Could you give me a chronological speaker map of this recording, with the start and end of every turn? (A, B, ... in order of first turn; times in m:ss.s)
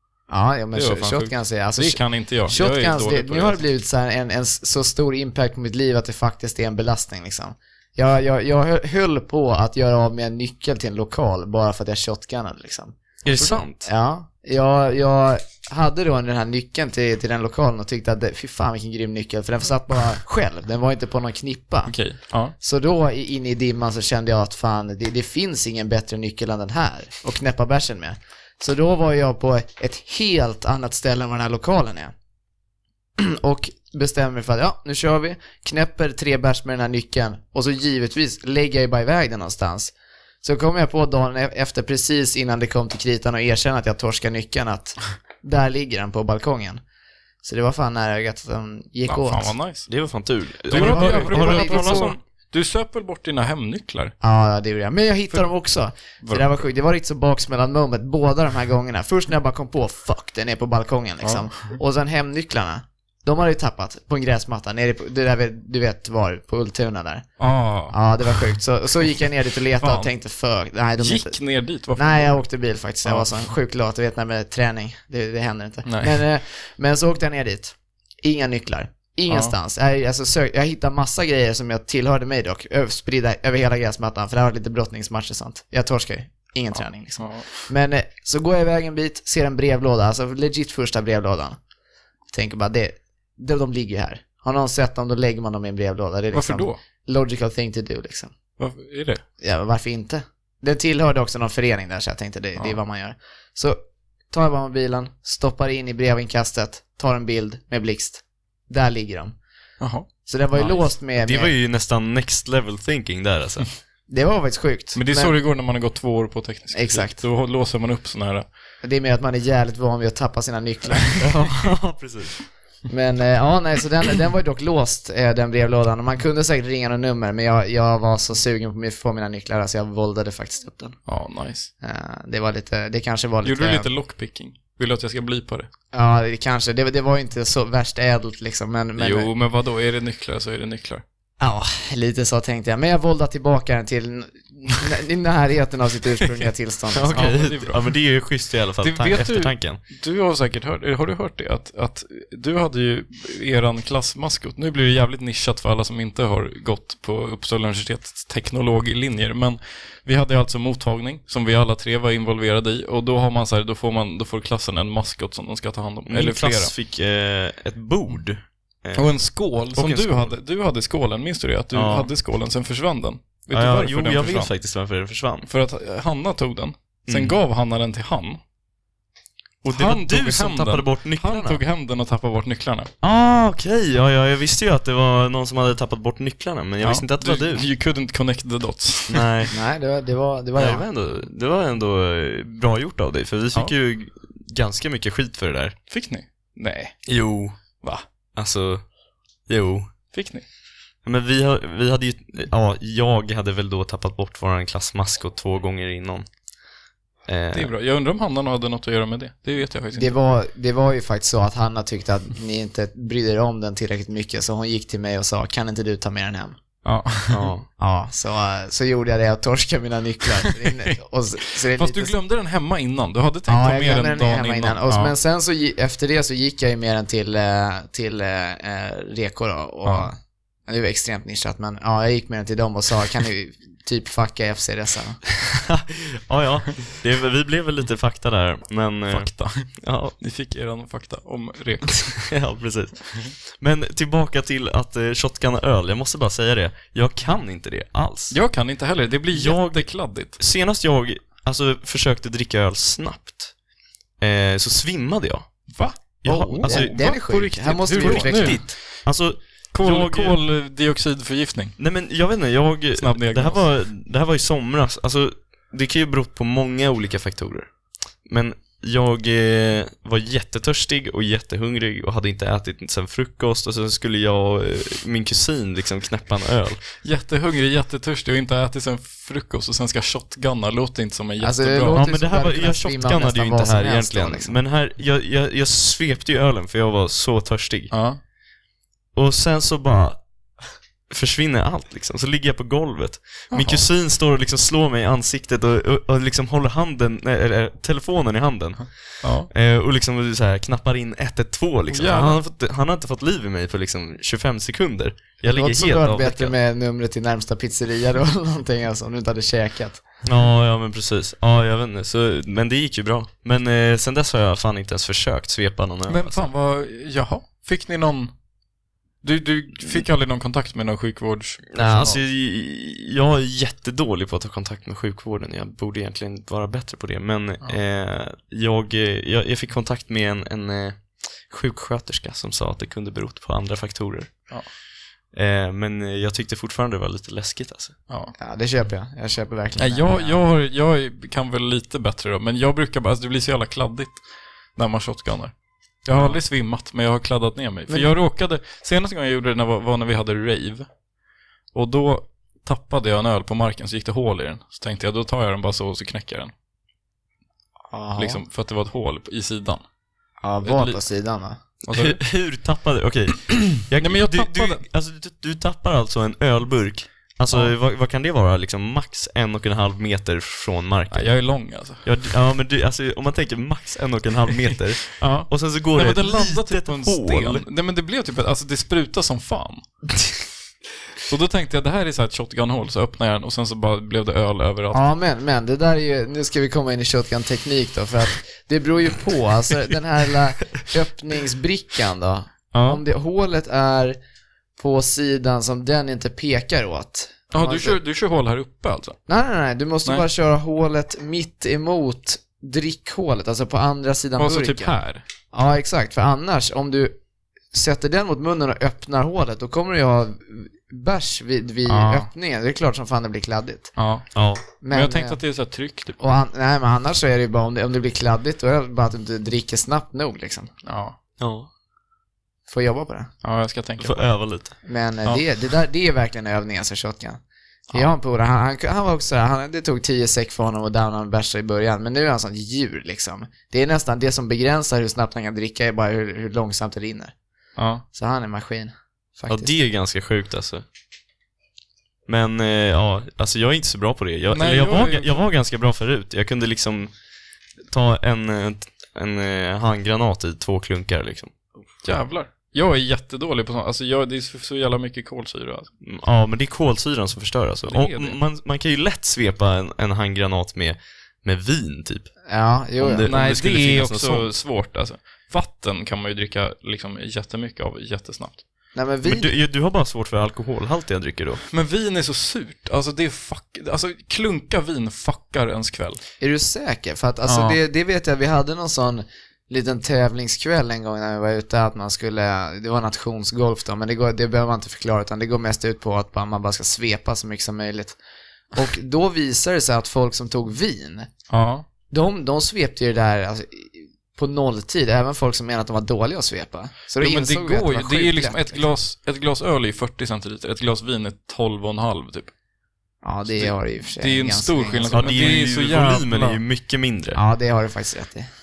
0:00.3-0:13.0 A
0:00.7-0:03.6 B
0:13.2-0:13.9 C
0:13.4-0:13.6 B
0:13.8-0:22.0 A
0:21.9-0:22.5 B
0:22.6-0:32.1 A
0:33.2-0:46.8 A
0:47.4-0:49.6 A
0:49.1-0:49.9 B
0:49.9-0:52.2 C
0:50.7-0:52.2 A
0:50.7-0:54.1 B
0:54.2-1:07.3 A
0:56.2-0:56.6 B
1:01.2-1:01.8 B
1:07.4-1:08.0 B
1:07.9-1:11.4 A
1:09.8-1:10.1 B
1:11.0-1:12.4 B
1:12.0-1:31.6 A
1:13.0-1:13.3 B
1:15.8-1:16.2 B
1:27.2-1:27.6 B
1:32.3-1:38.3 A
1:36.3-1:36.8 B
1:38.6-1:39.2 B
1:39.4-1:43.8 A
1:44.3-1:49.4 A
1:49.8-1:50.8 B
1:50.3-1:51.5 A
1:51.2-1:53.7 C
1:54.1-1:55.4 A
1:54.9-1:58.5 B
1:56.7-1:57.2 A
1:58.8-2:01.4 A
2:01.2-2:02.4 C
2:02.9-2:11.0 A
2:11.1-2:11.7 B
2:11.8-2:13.9 A
2:13.4-2:15.7 B
2:15.9-2:19.3 A
2:19.0-2:21.0 B
2:21.4-2:27.3 A
2:26.9-2:29.8 C
2:27.1-2:27.9 B
2:28.8-2:46.7 B
2:46.1-2:49.1 C
2:49.0-2:54.5 B
2:49.7-2:50.4 C
2:51.7-2:52.1 C
2:53.5-2:55.5 C
2:55.5-2:58.4 B
2:57.1-2:57.4 C
2:59.6-3:01.6 C
2:59.7-3:02.9 B
3:03.0-3:07.6 C
3:06.8-3:09.3 B
3:09.1-3:09.5 C
3:09.5-3:10.8 A
3:10.6-3:15.8 C
3:15.9-3:17.1 B
3:17.1-3:17.6 C
3:18.4-3:18.8 C
3:19.5-3:19.9 C
3:20.1-3:20.4 B
3:21.0-3:26.3 C
3:27.3-3:27.7 C
3:27.5-3:30.1 B
3:30.0-3:36.6 A
3:36.8-3:37.5 B
3:37.3-3:37.7 C
3:37.8-3:42.1 A
3:40.4-3:40.9 B
3:41.7-3:45.2 B
3:43.5-3:55.2 A
3:49.8-3:50.1 B
3:55.7-4:00.2 C
3:59.1-3:59.7 B
4:00.2-4:02.3 B
4:02.3-4:08.4 C
4:08.3-4:10.4 B
4:09.3-4:13.5 C
4:14.2-4:15.5 C
4:15.7-4:19.0 B
4:16.2-4:17.0 C
4:16.3-4:18.6 A
4:18.0-4:20.4 C
4:19.7-4:21.8 B
4:21.8-4:27.7 C
4:23.0-4:23.7 B
4:28.3-4:36.8 C
4:37.0-4:42.1 B
4:41.4-4:44.6 A
4:41.9-4:47.9 C
4:47.9-4:48.2 B
4:49.2-4:50.2 C
4:51.1-5:06.5 C
4:53.5-4:53.8 B
4:59.2-4:59.5 B
5:01.9-5:02.4 B
5:05.4-5:10.0 A
5:10.2-5:16.5 C
5:16.1-5:18.3 B
5:19.2-5:22.2 B
5:21.7-5:34.4 C
5:35.3-5:38.0 C
5:38.1-5:38.4 B
5:38.4-5:40.4 A
5:39.8-5:44.2 B
5:44.8-5:45.5 B
5:46.1-5:50.9 B
5:51.7-5:56.5 B
5:57.9-5:58.4 A
5:58.2-5:59.8 B
6:00.4-6:01.6 A
6:00.6-6:01.0 B
6:01.8-6:11.3 C
6:01.9-6:02.2 B
6:04.0-6:04.8 B
6:11.1-6:12.1 B
6:12.0-6:17.6 C
6:15.1-6:19.9 B
6:21.2-6:25.0 B
6:24.9-6:34.2 A
6:32.7-6:33.0 C
6:34.8-6:38.0 A
6:37.5-6:39.2 B
6:39.3-6:45.0 A
6:44.4-6:45.2 B
6:45.5-6:47.2 A
6:47.7-6:53.9 A
6:51.9-6:52.3 C
6:54.0-6:54.3 B
6:54.4-6:54.6 C
6:54.8-6:55.4 A
6:54.9-6:56.2 B
6:56.2-7:00.7 A
7:00.8-7:01.2 B
7:01.4-7:01.7 C
7:02.7-7:03.3 A
7:03.4-7:04.3 B
7:04.0-7:04.7 C
7:04.8-7:17.3 A
7:17.8-7:18.0 B
7:18.2-7:19.7 A
7:19.5-7:20.8 C
7:22.3-7:27.1 C
7:24.5-7:25.4 B
7:27.9-7:31.5 C
7:32.0-7:35.9 B
7:36.0-7:42.3 C
7:37.9-7:38.4 B
7:42.5-7:43.3 A
7:43.0-7:44.5 C
7:43.3-7:48.6 B
7:49.0-7:49.5 A
7:49.2-7:51.6 C
7:51.7-7:56.2 B
7:56.4-8:08.2 A
7:57.5-7:57.8 B
8:08.7-8:11.3 A
8:11.5-8:11.8 B
8:12.1-8:18.9 A
8:17.2-8:22.5 B
8:23.2-8:25.2 A
8:23.5-8:26.6 B
8:25.1-8:27.4 C
8:27.4-8:28.5 A